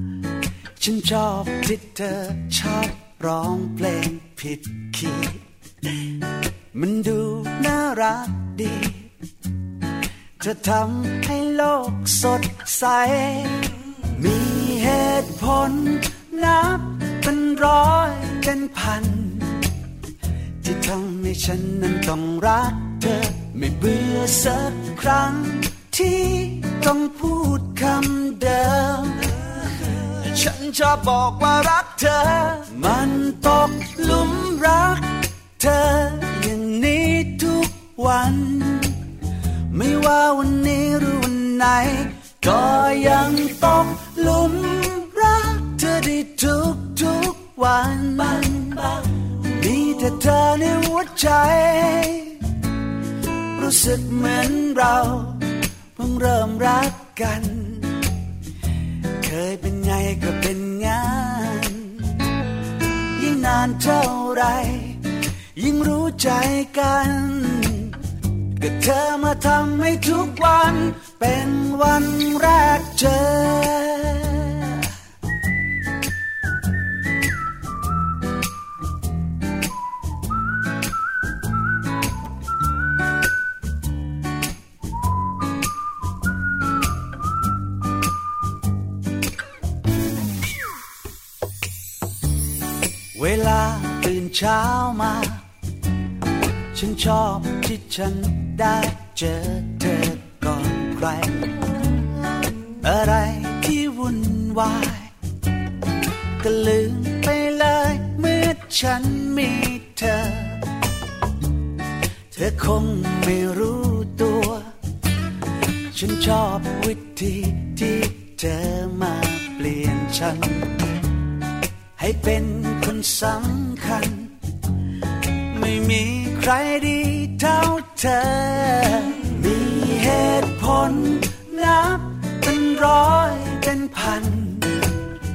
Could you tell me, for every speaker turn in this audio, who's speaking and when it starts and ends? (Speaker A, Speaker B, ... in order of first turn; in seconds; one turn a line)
Speaker A: 0.8-5.4
Speaker A: 6.7-9.1
Speaker A: 10.4-19.6
Speaker A: 20.6-39.0
Speaker A: 39.7-52.4
Speaker A: 53.5-58.0
Speaker A: 59.2-62.1
Speaker A: 63.1-65.0
Speaker A: 65.6-68.0
Speaker A: 68.6-74.9
Speaker A: 93.1-95.5
Speaker A: 96.7-101.6
Speaker A: 102.8-105.1
Speaker A: 106.4-110.6
Speaker A: 112.3-114.7
Speaker A: 115.9-120.8
Speaker A: 122.0-124.4
Speaker A: 125.5-134.9